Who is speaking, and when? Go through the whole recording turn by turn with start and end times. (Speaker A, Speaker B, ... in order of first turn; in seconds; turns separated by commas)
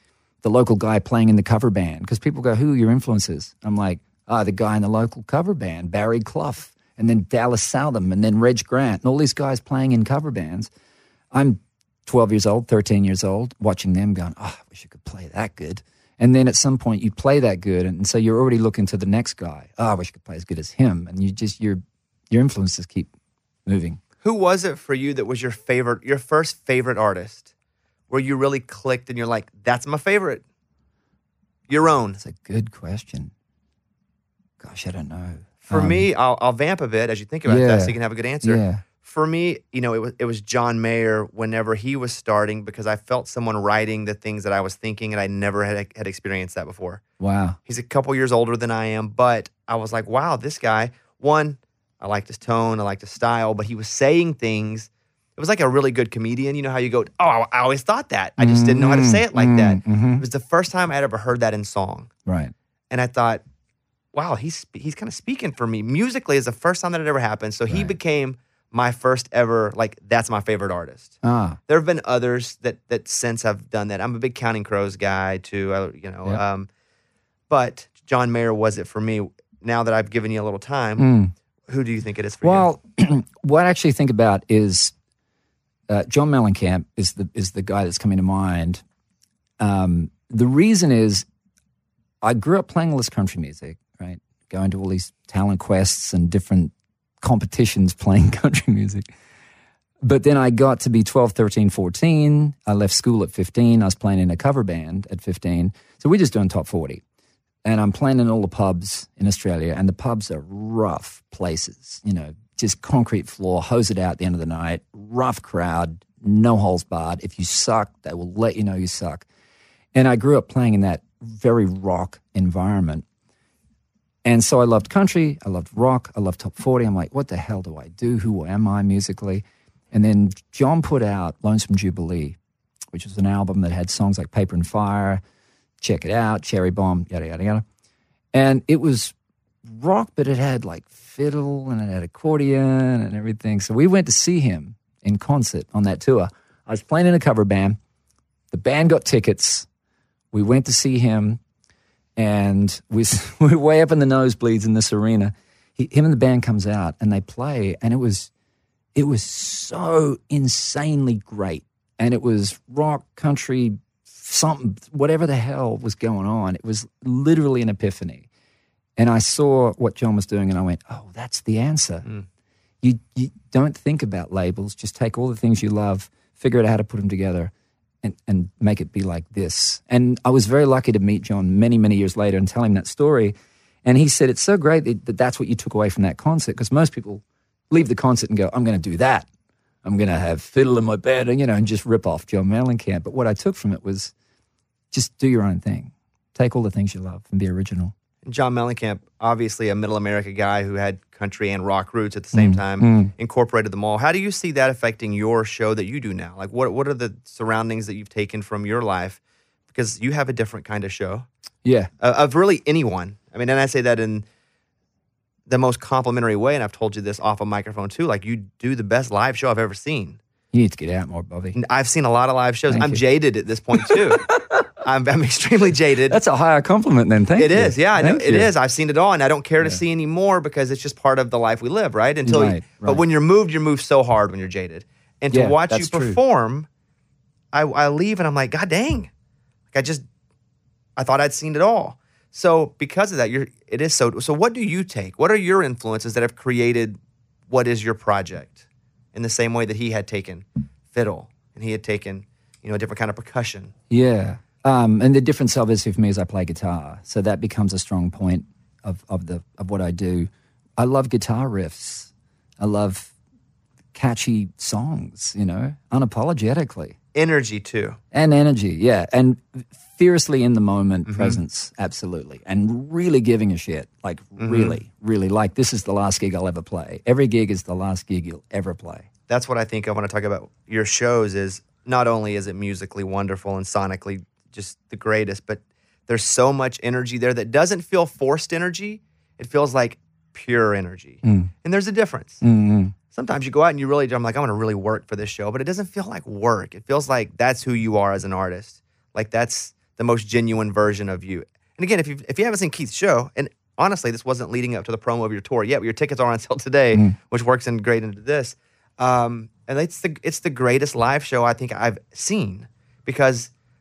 Speaker A: 0.4-10.7, Speaker A: 11.3-23.1, Speaker A: 23.6-24.0, Speaker B: 24.2-27.5, Speaker B: 28.1-30.4, Speaker B: 31.7-32.2, Speaker A: 32.2-33.3, Speaker A: 34.6-36.0, Speaker B: 35.6-47.0, Speaker A: 37.4-38.8, Speaker A: 47.2-47.6, Speaker B: 47.6-62.1, Speaker A: 58.4-60.2, Speaker A: 62.2-62.5, Speaker B: 62.9-63.4, Speaker B: 64.1-71.2, Speaker A: 71.2-71.6, Speaker B: 71.7-76.7, Speaker B: 77.5-81.1, Speaker A: 81.0-81.3, Speaker B: 81.7-82.7, Speaker A: 82.4-84.9, Speaker A: 85.9-88.8, Speaker A: 89.6-91.2, Speaker A: 92.2-99.1, Speaker A: 100.0-107.0, Speaker A: 107.6-119.2, Speaker A: 119.9-123.0, Speaker A: 124.2-132.4, Speaker A: 132.9-135.2, Speaker A: 135.8-137.6, Speaker A: 138.3-147.8, Speaker A: 148.5-149.7, Speaker A: 150.3-151.4, Speaker A: 152.2-158.3, Speaker A: 158.9-168.2, Speaker A: 169.0-172.1, Speaker A: 172.8-183.3, Speaker A: 183.8-189.3, Speaker A: 189.8-194.1, Speaker A: 194.9-197.9, Speaker B: 198.2-209.2, Speaker A: 202.3-203.1, Speaker B: 209.7-211.3, Speaker A: 211.6-211.9, Speaker B: 212.0-214.2, Speaker B: 215.5-220.2, Speaker A: 220.5-221.6, Speaker B: 221.5-224.2, Speaker A: 222.7-223.0, Speaker A: 223.8-224.6, Speaker B: 224.8-226.2, Speaker A: 226.1-228.5, Speaker B: 227.3-236.7, Speaker A: 232.2-233.0, Speaker A: 235.3-236.2, Speaker B: 237.5-239.1, Speaker B: 239.7-240.0, Speaker B: 241.0-247.0, Speaker B: 247.5-248.6, Speaker B: 249.1-253.7, Speaker A: 253.9-263.1, Speaker A: 263.9-266.9, Speaker B: 267.1-268.0, Speaker A: 268.1-279.1, Speaker B: 271.1-271.4, Speaker B: 274.4-274.8, Speaker B: 279.3-292.4, Speaker A: 291.2-291.5, Speaker A: 292.4-292.9, Speaker B: 293.1-313.5